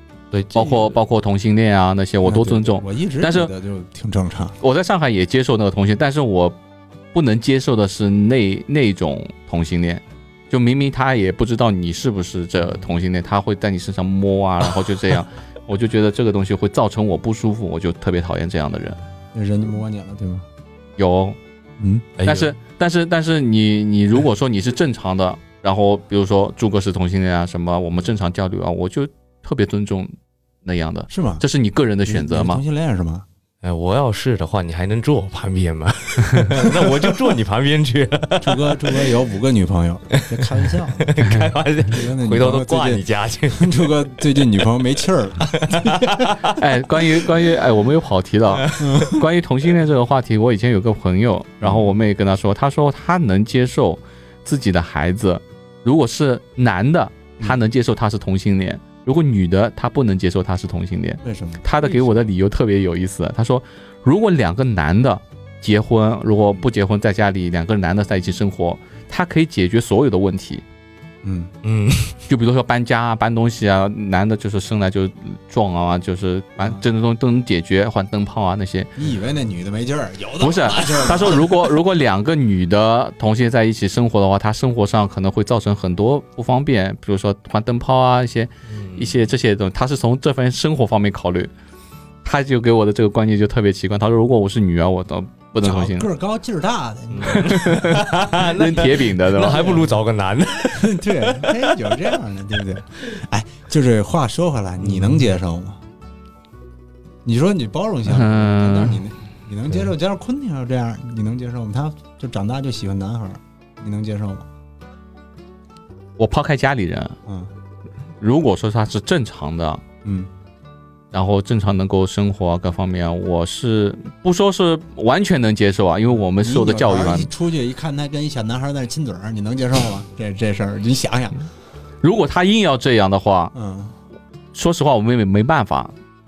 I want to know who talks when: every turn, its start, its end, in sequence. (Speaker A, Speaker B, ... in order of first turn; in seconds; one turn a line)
Speaker A: 0.3-1.0
Speaker B: 0.5-3.5
Speaker C: 2.2-4.6
Speaker B: 4.6-6.5
Speaker B: 7.1-19.0
Speaker C: 19.3-20.4
Speaker B: 21.0-21.4
Speaker C: 21.8-22.0
Speaker A: 22.2-22.5
Speaker B: 22.2-30.1
Speaker B: 30.6-32.6
Speaker C: 31.1-31.4
Speaker C: 32.0-33.2
Speaker A: 33.6-39.2
Speaker C: 36.6-36.9
Speaker C: 38.4-41.1
Speaker A: 40.1-43.9
Speaker C: 41.9-46.3
Speaker A: 45.6-46.5
Speaker B: 46.4-70.6
Speaker A: 48.5-49.1
Speaker C: 48.8-49.2
Speaker C: 61.2-61.6
Speaker A: 61.8-62.2
Speaker C: 71.2-71.5
Speaker A: 71.6-72.2
Speaker B: 72.3-78.9
Speaker C: 79.0-81.7
Speaker B: 80.4-91.5
Speaker A: 88.7-89.1
Speaker B: 92.2-96.1
Speaker C: 95.6-98.2
Speaker A: 97.1-102.2
Speaker B: 97.5-99.8
Speaker C: 99.5-99.9
Speaker C: 100.7-105.8
Speaker A: 104.8-105.3
Speaker C: 107.2-114.5
Speaker B: 108.1-109.0
Speaker B: 116.2-117.2
Speaker B: 118.2-119.8
Speaker C: 120.0-120.3
Speaker B: 121.1-127.3
Speaker C: 126.4-131.4
Speaker B: 132.0-133.5
Speaker C: 133.5-133.9
Speaker B: 134.5-135.9